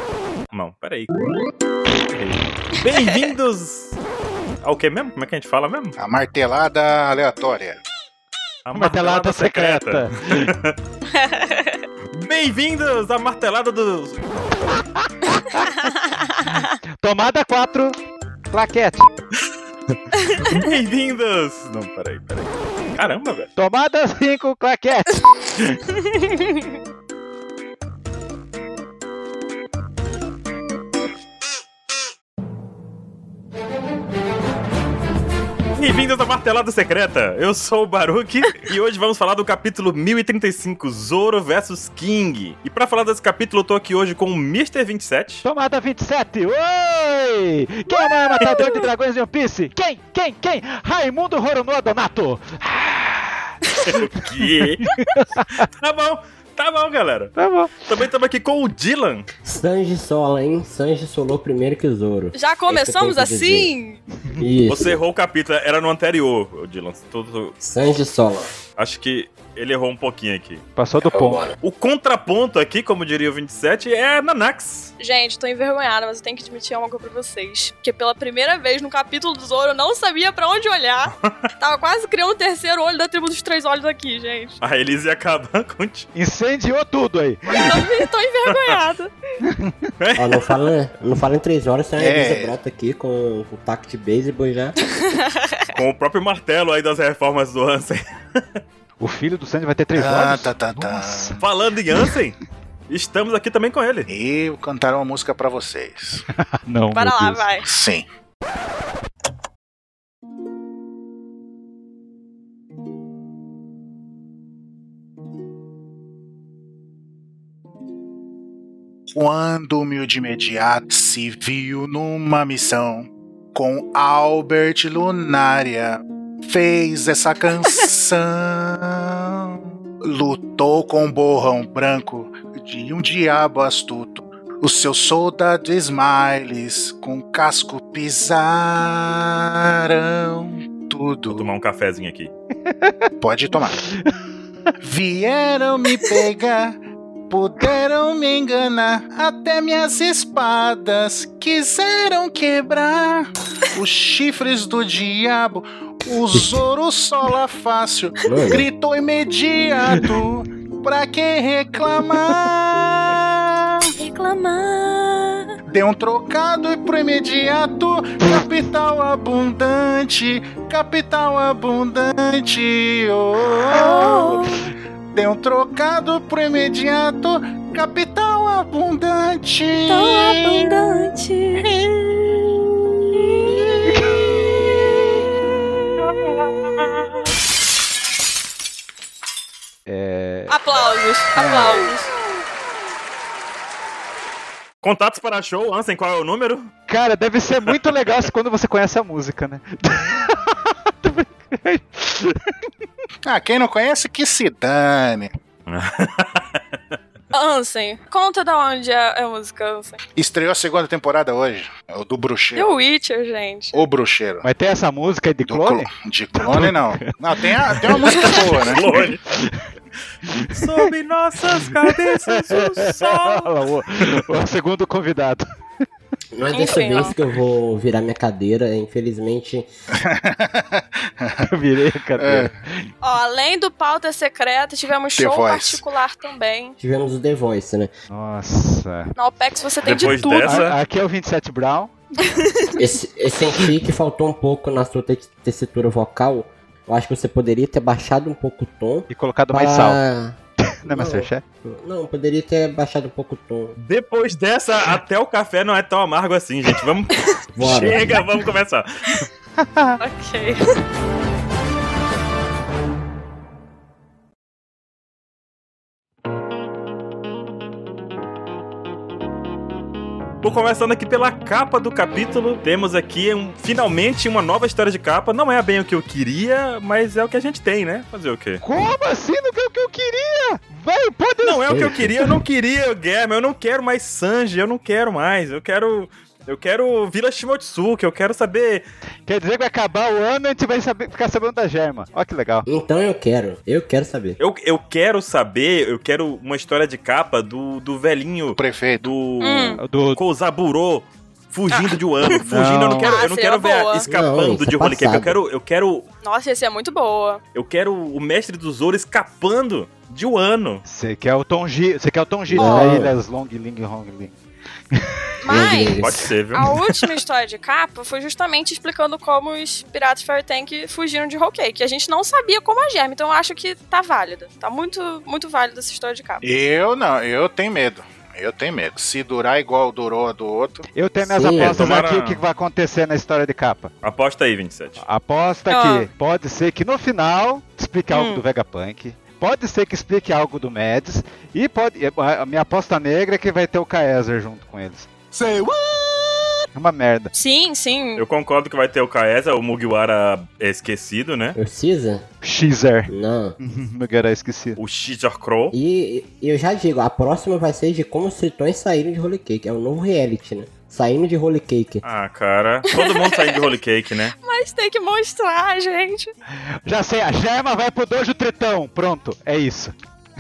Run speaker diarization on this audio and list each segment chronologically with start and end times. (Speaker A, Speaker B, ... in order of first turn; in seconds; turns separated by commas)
Speaker A: 0.5-1.1, Speaker B: 2.1-2.5, Speaker A: 2.8-4.0, Speaker A: 4.6-6.0, Speaker C: 6.0-7.8, Speaker A: 8.7-10.8, Speaker B: 8.7-10.5, Speaker D: 11.1-11.8, Speaker A: 12.1-14.4, Speaker B: 14.7-15.9, Speaker D: 15.8-16.7, Speaker B: 16.5-18.0, Speaker B: 18.5-19.1, Speaker A: 19.4-23.5, Speaker D: 20.2-20.6, Speaker B: 23.6-25.8, Speaker D: 26.1-26.7, Speaker A: 35.7-45.5, Speaker B: 45.4-55.7, Speaker D: 48.0-48.7, Speaker A: 53.8-54.9, Speaker A: 55.6-57.3, Speaker B: 57.4-57.9, Speaker A: 57.9-59.3, Speaker E: 59.5-63.7, Speaker D: 62.3-64.0, Speaker E: 64.4-65.0, Speaker A: 64.7-67.5, Speaker E: 67.6-68.5, Speaker A: 68.8-70.6, Speaker B: 70.8-71.4, Speaker E: 71.0-71.6, Speaker A: 71.6-74.9, Speaker D: 75.0-84.6, Speaker A: 84.6-86.1, Speaker B: 86.2-87.8, Speaker D: 87.5-89.1, Speaker A: 88.5-88.8, Speaker B: 89.4-89.9, Speaker A: 90.0-90.4, Speaker E: 90.2-94.8, Speaker C: 92.0-92.5, Speaker D: 94.8-95.8, Speaker A: 95.7-98.6, Speaker B: 99.0-101.4, Speaker C: 100.0-101.4, Speaker A: 101.4-102.4, Speaker A: 102.9-104.1, Speaker C: 104.1-106.2, Speaker B: 106.4-107.5, Speaker D: 106.9-107.7, Speaker C: 107.7-108.1, Speaker C: 119.1-141.5, Speaker A: 141.3-142.3, Speaker B: 142.7-143.1, Speaker C: 143.2-143.8, Speaker B: 143.8-144.1, Speaker C: 144.8-146.8, Speaker C: 147.3-163.9, Speaker E: 158.3-158.6, Speaker D: 164.0-165.6, Speaker C: 165.7-174.3, Speaker D: 173.7-174.6, Speaker C: 175.1-180.7, Speaker D: 179.7-181.7, Speaker D: 183.1-184.1, Speaker B: 183.8-184.2, Speaker A: 186.3-187.2, Speaker B: 189.9-190.6, Speaker D: 190.5-192.1, Speaker B: 191.3-191.9, Speaker A: 194.8-196.7, Speaker B: 196.9-202.6, Speaker C: 203.3-205.3, Speaker A: 205.7-207.0, Speaker D: 207.3-210.0, Speaker C: 210.2-212.7, Speaker D: 212.6-213.7, Speaker C: 213.7-214.4, Speaker B: 214.4-218.1, Speaker C: 215.4-218.9, Speaker A: 217.9-219.2, Speaker D: 218.1-218.5, Speaker B: 218.9-219.7, Speaker B: 220.3-220.9, Speaker A: 220.4-223.5, Speaker B: 221.5-225.4, Speaker E: 226.3-229.7, Speaker D: 226.5-227.2, Speaker C: 230.0-231.5, Speaker B: 231.4-232.9, Speaker C: 232.2-232.5, Speaker D: 233.0-236.8, Speaker C: 235.2-235.8, Speaker E: 236.8-237.9, Speaker B: 238.1-239.1, Speaker D: 239.2-240.7, Speaker A: 239.8-240.8, Speaker B: 240.4-242.0, Speaker D: 242.3-242.8, Speaker E: 242.8-253.8, Speaker B: 249.1-250.0, Speaker B: 250.6-251.4, Speaker A: 253.8-259.2, Speaker D: 257.1-257.4, Speaker E: 257.6-258.2, Speaker B: 259.6-260.0, Speaker D: 260.0-260.8, Speaker A: 270.4-278.6, Speaker B: 278.6-282.0, Speaker A: 281.4-288.9, Speaker E: 281.7-282.2, Speaker B: 289.3-292.7, Speaker E: 292.7-294.4, Speaker A: 294.4-306.1, Speaker C: 298.6-299.1, Speaker D: 299.4-299.8, Speaker B: 299.8-300.2, Speaker D: 301.7-302.4, Speaker B: 302.4-303.1, Speaker D: 303.0-304.1, Speaker E: 304.1-305.4, Speaker D: 306.2-307.4, Speaker A: 307.6-310.8, Speaker B: 310.9-314.4, Speaker E: 312.5-313.2, Speaker B: 314.9-315.3, Speaker D: 315.4-326.4, Speaker E: 315.5-316.2, Speaker A: 316.0-317.1, Speaker C: 326.4-330.9, Speaker B: 330.9-333.9, Speaker E: 331.2-331.8, Speaker A: 331.6-332.4, Speaker A: 334.0-335.0, Speaker B: 335.0-345.1, Speaker D: 335.7-336.1, Speaker D: 338.1-338.4, Speaker C: 345.3-346.5, Speaker B: 346.8-347.3, Speaker D: 347.3-348.2, Speaker A: 348.2-351.6, Speaker E: 351.6-352.3, Speaker B: 352.4-354.8, Speaker E: 353.1-353.6, Speaker A: 354.8-355.8, Speaker E: 355.7-362.0, Speaker A: 362.0-364.3, Speaker D: 362.9-363.7, Speaker D: 364.3-366.3, Speaker B: 366.9-369.9